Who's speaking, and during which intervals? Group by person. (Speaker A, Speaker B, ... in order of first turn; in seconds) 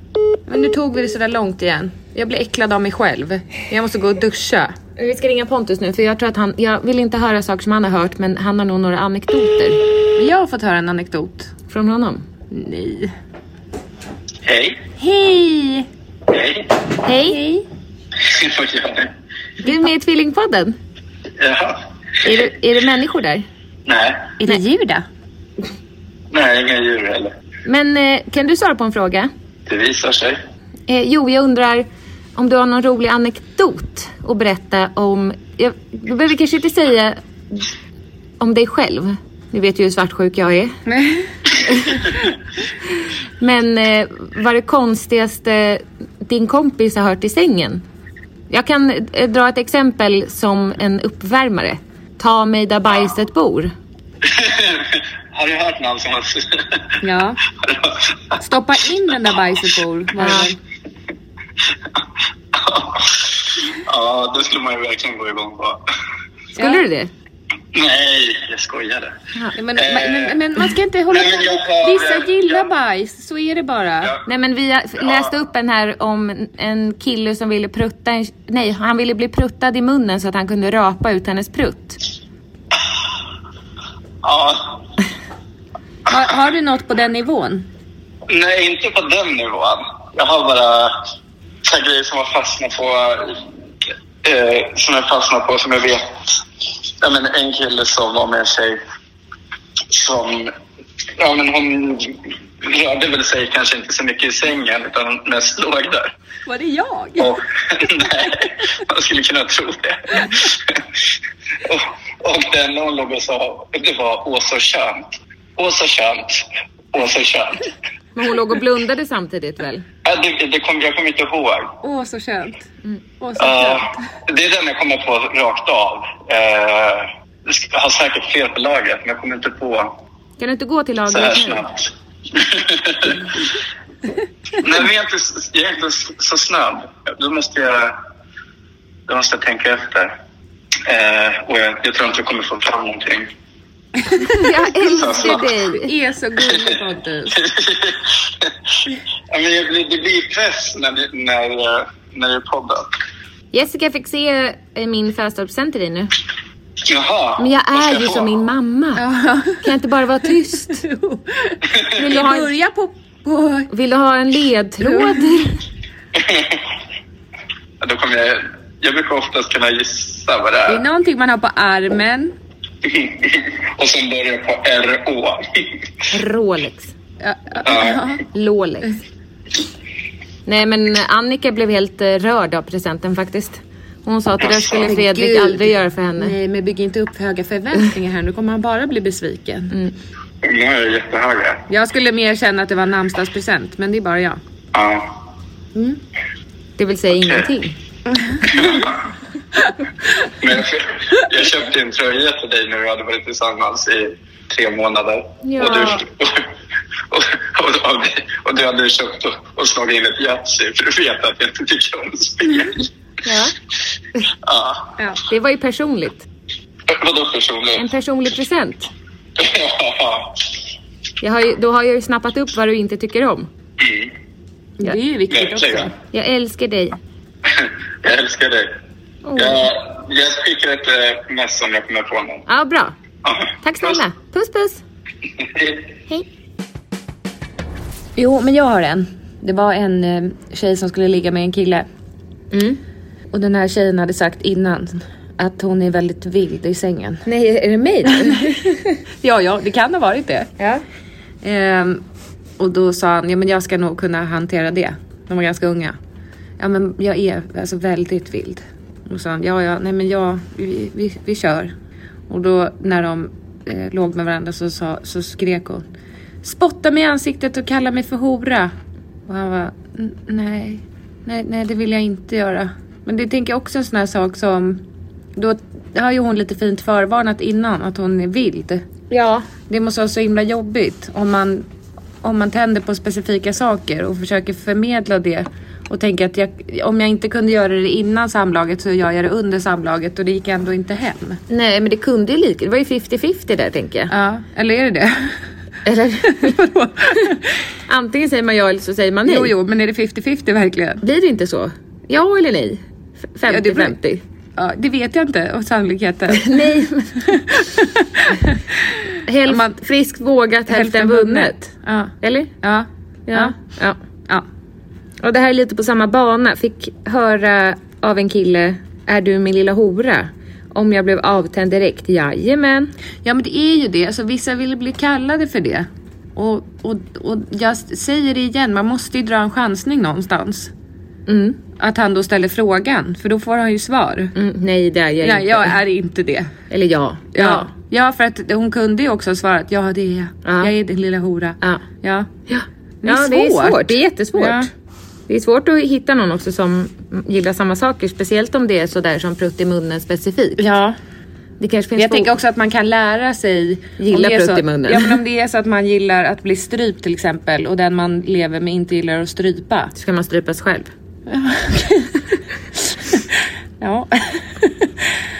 Speaker A: 0.5-4.7, 10.2-11.5, 12.5-13.1, 15.0-15.9, 17.2-17.6, 24.4-25.0, 40.9-41.2, 57.0-57.4, 58.4-60.6, 66.5-66.8, 69.6-74.1, 86.1-87.7, 106.5-107.3, 121.8-122.7, 123.2-124.0, 145.2-147.4, 158.9-159.6, 160.7-163.7, 164.8-165.4, 170.7-172.3, 177.2-178.2, 184.8-189.8, 191.7-194.4, 195.7-196.0, 198.1-198.4, 224.8-225.9, 238.2-241.8, 243.3-247.2, 248.1-248.6, 249.2-250.5, 251.4-252.0, 252.6-255.9, 256.6-261.7, 262.3-265.8, 266.4-268.7, 269.3-274.8, 275.4-278.8, 279.7-281.6, 282.2-291.4, 294.1-295.4, 296.3-297.4, 299.2-301.0, 303.5-303.9, 304.6-308.6, 309.5-309.8, 310.7-313.6, 323.2-330.7, 331.8-334.3, 335.2-336.5, 337.3-342.3, 343.0-344.7, 350.6-350.9, 351.9-359.9, 361.3-362.2, 362.8-363.2, 363.8-365.1
Speaker B: 5.0-9.8, 11.7-12.2, 17.0-17.4, 19.6-20.8, 22.2-23.4, 27.6-29.3, 30.9-37.7, 38.4-40.8, 41.6-42.1, 42.8-47.8, 48.5-53.7, 60.2-60.5, 66.6-67.1, 74.2-82.0, 118.2-119.8, 130.4-131.7, 144.3-145.9, 153.5-156.1, 157.4-159.0, 159.6-160.8, 161.9-162.5, 163.7-165.6, 176.1-176.9, 178.3-178.9, 180.4-186.3, 196.8-197.8, 205.4-206.0, 213.2-213.5, 215.3-216.3, 217.8-218.9, 221.2-223.5, 226.1-227.0, 229.3-229.7, 232.5-232.9, 233.6-234.8, 242.5-242.8, 247.2-249.0, 250.6-250.8, 279.1-279.5, 291.5-294.1, 295.8-296.6, 297.9-299.5, 301.0-304.2, 306.3-307.6, 309.2-312.6, 313.3-314.0, 315.2-322.9, 331.3-331.6, 334.3-335.8, 336.7-337.7, 340.4-340.7, 342.5-344.7, 345.3-350.7, 351.6-352.3, 354.0-355.2, 359.9-360.9
Speaker C: 14.4-14.8, 16.3-16.7, 18.2-19.1, 21.4-22.3, 23.9-24.4, 26.3-27.3, 29.7-30.4, 54.2-57.0, 57.6-58.3, 62.5-65.8, 67.7-69.1, 69.8-70.4, 71.1-72.7, 84.2-84.8, 88.3-90.9, 91.6-93.5, 94.2-96.4, 97.0-98.8, 99.9-100.5, 101.2-106.1, 107.2-110.8, 111.6-117.7, 120.0-121.7, 123.4-129.9, 131.1-133.2, 134.6-137.9, 139.1-140.1, 140.9-143.3, 144.9-145.5, 146.5-146.8, 147.3-148.5, 149.3-152.9, 156.9-158.3, 166.1-166.6, 167.8-170.8, 172.8-175.8, 177.6-178.0, 184.4-184.9, 190.4-191.6, 194.7-195.1, 198.4-199.0, 200.4-206.4, 207.1-212.9, 214.4-214.9, 216.9-217.8, 219.4-220.4, 223.8-224.1, 225.3-225.9, 227.5-228.7, 229.3-232.4, 233.2-234.0, 235.4-235.9